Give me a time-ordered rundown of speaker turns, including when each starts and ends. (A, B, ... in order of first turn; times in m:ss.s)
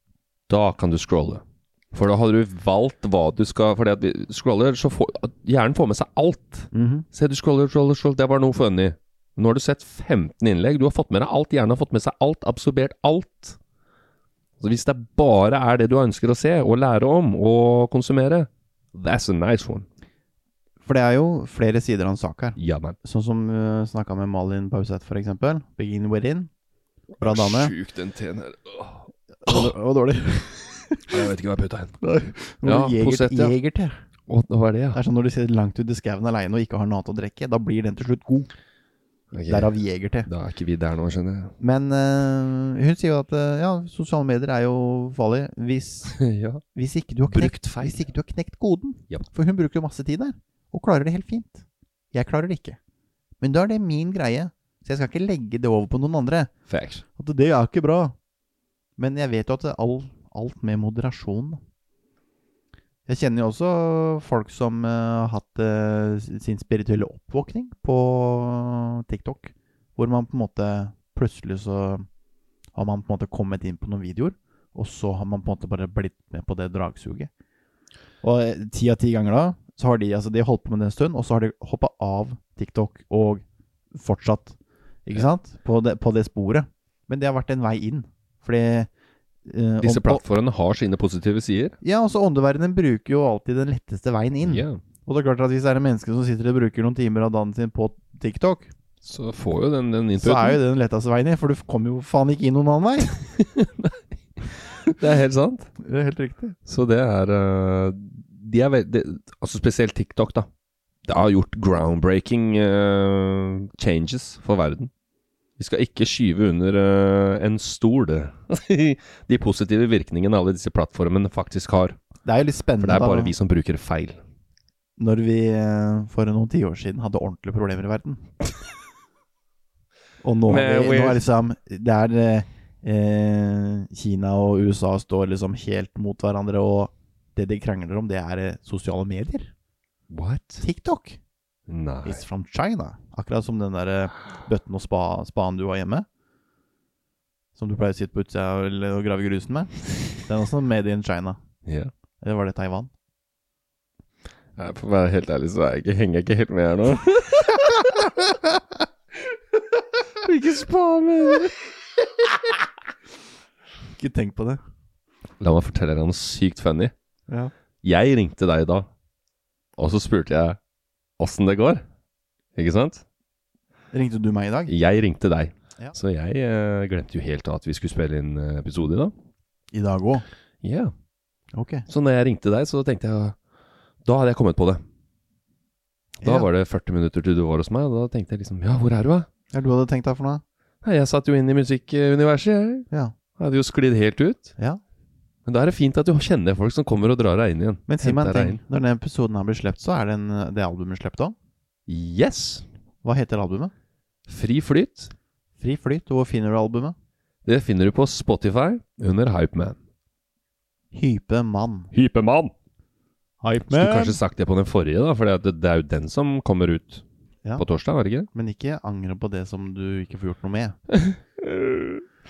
0:00.5-0:13.6 A
0:06.7-0:07.0 B
0:14.6-0:19.8 A
0:20.8-0:26.5 B
0:22.6-0:23.0 A
0:27.2-0:29.7 A
0:27.2-0:27.7 B
0:29.4-0:31.1 B
0:31.1-0:32.0 A
0:32.0-0:34.0 B
0:32.6-0:33.6 A
0:34.3-0:35.0 A
0:34.9-0:38.5 B
0:39.3-0:39.7 A
0:39.4-0:40.3 B
0:40.2-0:41.5 A
0:41.6-0:46.2 B
0:46.1-0:46.6 A
0:46.7-0:52.8 B
0:47.3-0:48.1 A
0:53.4-0:56.5 B
0:56.7-0:57.0 A
0:57.2-0:58.1 B
0:59.0-1:01.6 B
1:03.0-1:12.0 B
1:12.7-1:17.3 B
1:18.2-1:28.9 B
1:29.4-1:30.2 B
1:29.8-1:31.8 A
1:31.8-1:38.7 B
1:34.4-1:34.8 A
1:39.0-1:40.6 A
1:40.2-1:43.1 B
1:43.2-1:45.7 A
1:45.8-1:46.6 B
1:46.6-1:50.5 A
1:51.0-1:54.9 A
1:55.6-2:02.0 A
2:02.2-2:03.3 B
2:02.8-2:04.2 A
2:05.0-2:08.3 B
2:10.2-2:19.5 B
2:10.5-2:11.2 A
2:20.1-2:20.6 A
2:20.6-2:21.2 B
2:21.7-2:22.2 A
2:22.0-2:26.0 B
2:27.6-2:31.4 B
2:31.6-2:31.9 A
2:32.2-2:32.9 B
2:34.6-2:38.1 A
2:40.2-2:41.6 A
2:43.9-2:44.6 B
2:45.4-2:46.9 A
2:47.8-2:48.9 A
2:49.8-2:50.6 A
2:51.2-2:51.8 A
2:52.6-2:53.0 A
2:53.9-2:54.7 B
2:54.7-2:59.1 A
2:59.7-3:00.2 B
3:00.6-3:00.9 A
3:01.5-3:01.9 B
3:01.9-3:03.4 A
3:04.0-3:04.8 A
3:06.2-3:06.5 B
3:06.2-3:09.3 A
3:09.5-3:10.4 B
3:10.8-3:14.5 A
3:15.4-3:18.6 A
3:17.9-3:21.3 B
3:21.9-3:22.6 A
3:23.0-3:23.7 B
3:24.3-3:25.1 A
3:25.6-3:26.9 B
3:27.4-3:29.8 A
3:30.9-3:31.9 B
3:31.9-3:32.5 A
3:33.4-3:34.2 B
3:33.7-3:37.0 A
3:37.6-3:38.3 A
3:38.3-3:40.8 B
3:40.9-3:42.0 A